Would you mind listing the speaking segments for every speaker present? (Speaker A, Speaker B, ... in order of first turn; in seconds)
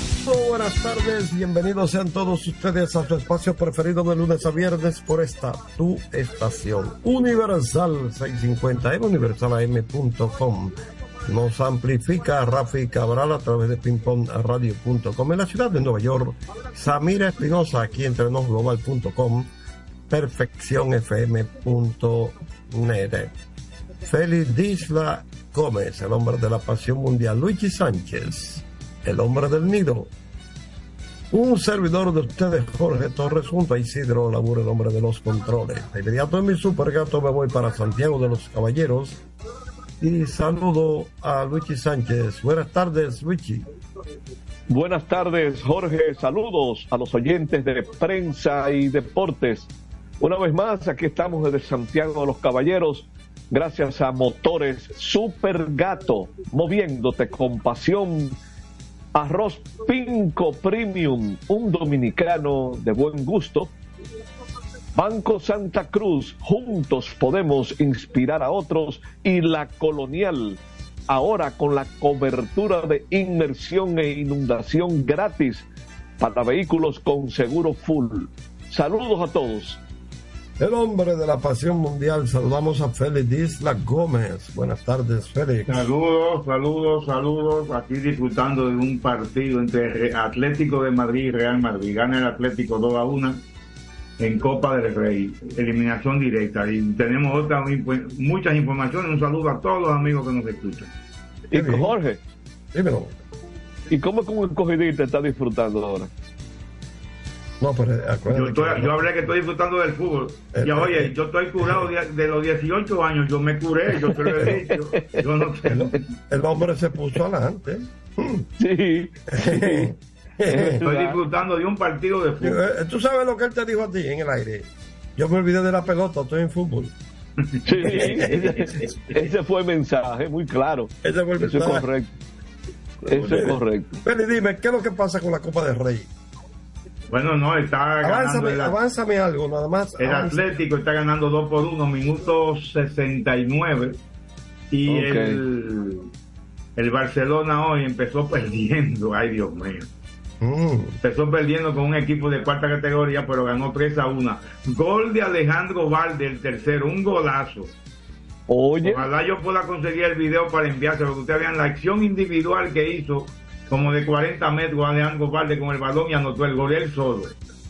Speaker A: 0.2-19.5, 20.1-23.3, 24.1-30.1, 31.3-39.2, 40.0-43.7, 80.6-85.9, 101.5-102.0, 102.7-103.1, 107.6-109.0, 110.5-111.9, 115.7-118.5, 119.3-120.8, 122.4-127.0, 127.8-128.7, 131.0-131.9, 133.1-136.1, 138.0-140.6, 150.4-150.9
Speaker B: 44.7-58.4, 59.1-63.7, 65.0-75.7, 76.2-79.8, 101.5-102.2, 103.9-106.1, 114.0-115.0, 118.6-119.9, 120.5-121.2, 127.7-132.1, 133.1-134.0, 144.9-145.4, 158.5-159.0
Speaker C: 85.7-93.4, 94.2-100.9, 108.3-115.9, 120.8-122.6, 127.8-128.8, 137.1-138.8, 140.0-144.0, 144.7-146.1, 146.8-149.9, 151.0-157.7, 158.8-167.3